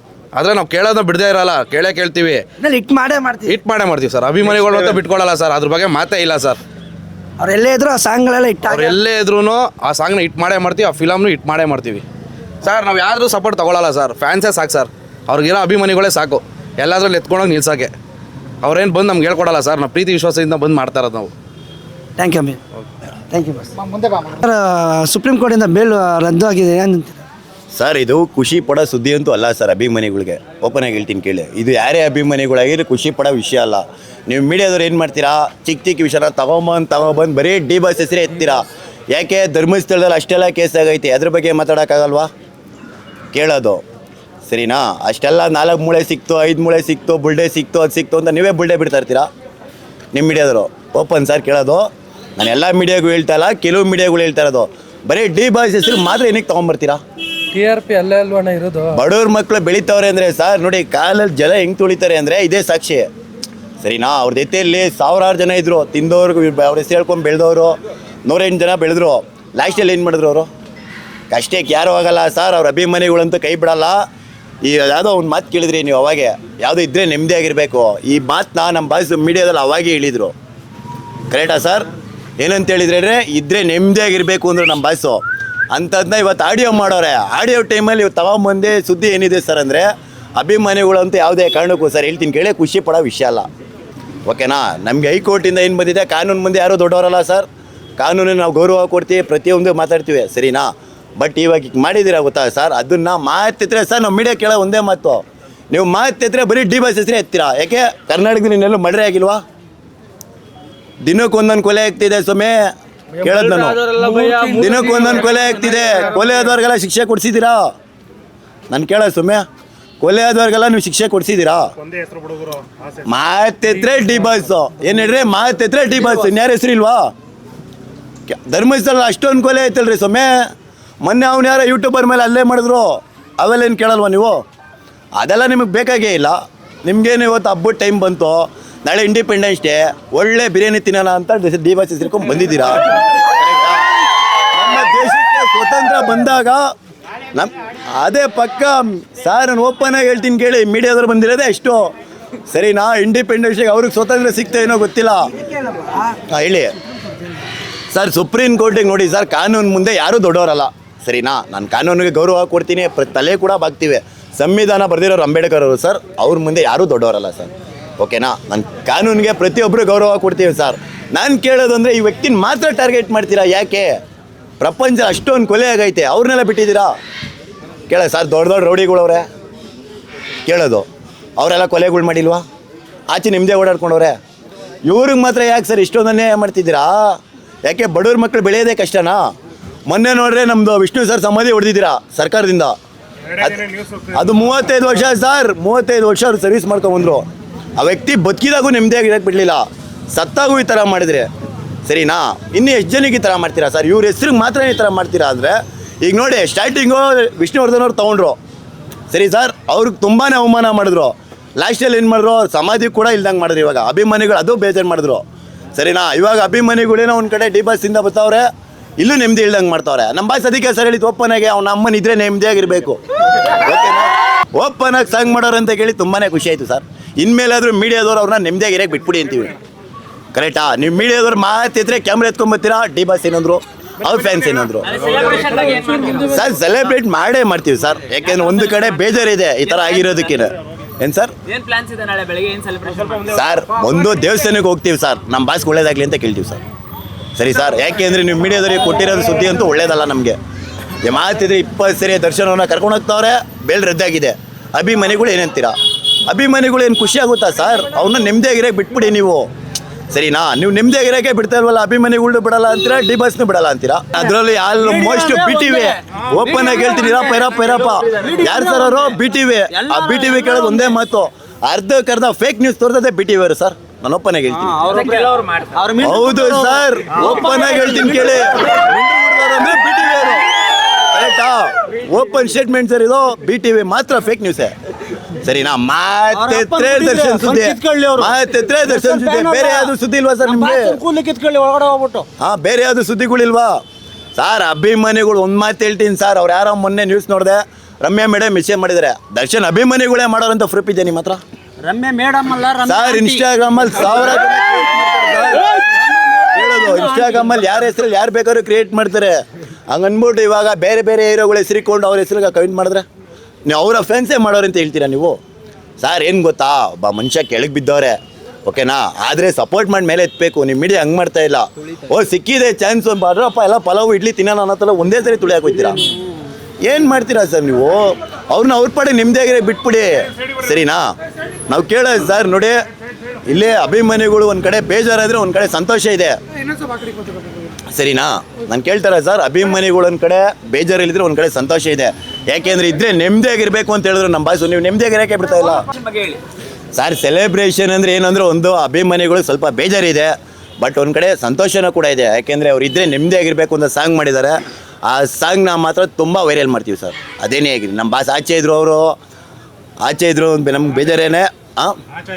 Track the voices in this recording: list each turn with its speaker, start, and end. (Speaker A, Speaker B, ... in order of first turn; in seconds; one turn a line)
Speaker A: 0.3-2.4
Speaker B: 2.6-3.6
Speaker A: 3.5-6.6
Speaker B: 7.4-9.0
Speaker A: 8.7-12.0
Speaker A: 12.6-17.9
Speaker A: 18.6-21.3
Speaker B: 22.2-22.6
Speaker B: 23.3-27.2
Speaker C: 27.7-42.3
Speaker C: 43.3-43.8
Speaker C: 44.5-49.3
Speaker C: 50.1-57.0
Speaker D: 57.5-59.0
Speaker C: 58.9-63.1
Speaker C: 63.8-70.5
Speaker C: 71.3-74.0
Speaker C: 74.6-80.3
Speaker C: 81.3-81.9
Speaker C: 82.4-93.5
Speaker C: 94.3-97.5
Speaker C: 98.0-109.4
Speaker C: 111.0-113.8
Speaker D: 113.2-116.3
Speaker C: 114.5-117.7
Speaker C: 118.7-119.5
Speaker C: 120.0-121.7
Speaker C: 123.0-127.1
Speaker C: 128.3-130.5
Speaker C: 131.0-134.4
Speaker C: 135.2-143.9
Speaker C: 144.5-146.7
Speaker C: 147.3-151.9
Speaker C: 152.5-155.3
Speaker B: 155.3-156.1
Speaker C: 156.3-156.7
Speaker C: 157.9-174.0
Speaker C: 174.6-176.9
Speaker C: 177.9-179.3
Speaker C: 180.5-182.4
Speaker C: 183.1-184.2
Speaker C: 184.9-189.3
Speaker C: 189.9-192.8
Speaker C: 193.4-201.3
Speaker C: 201.9-208.4
Speaker C: 209.1-215.2
Speaker C: 215.8-223.0
Speaker C: 223.6-229.6
Speaker C: 230.3-234.9
Speaker D: 234.8-236.4
Speaker C: 236.3-241.3
Speaker D: 239.7-240.1
Speaker D: 241.5-243.3
Speaker C: 243.3-246.6
Speaker C: 247.4-250.4
Speaker C: 251.0-255.8
Speaker C: 256.3-259.5
Speaker C: 260.1-274.8
Speaker E: 264.8-266.0
Speaker E: 268.1-269.0
Speaker E: 269.8-270.9
Speaker E: 274.7-278.4
Speaker D: 274.8-275.9
Speaker C: 276.0-284.7
Speaker C: 285.4-291.0
Speaker E: 286.4-289.9
Speaker E: 290.4-292.3
Speaker C: 292.4-293.8
Speaker C: 294.4-301.4
Speaker E: 301.9-303.4
Speaker C: 302.9-305.8
Speaker E: 305.3-307.6
Speaker C: 306.5-313.1
Speaker C: 313.7-315.4
Speaker C: 316.0-326.0
Speaker C: 326.9-331.1
Speaker C: 331.7-332.8
Speaker C: 333.5-336.4
Speaker C: 337.9-345.9
Speaker D: 345.8-346.4
Speaker C: 346.9-359.2
Speaker C: 360.0-362.0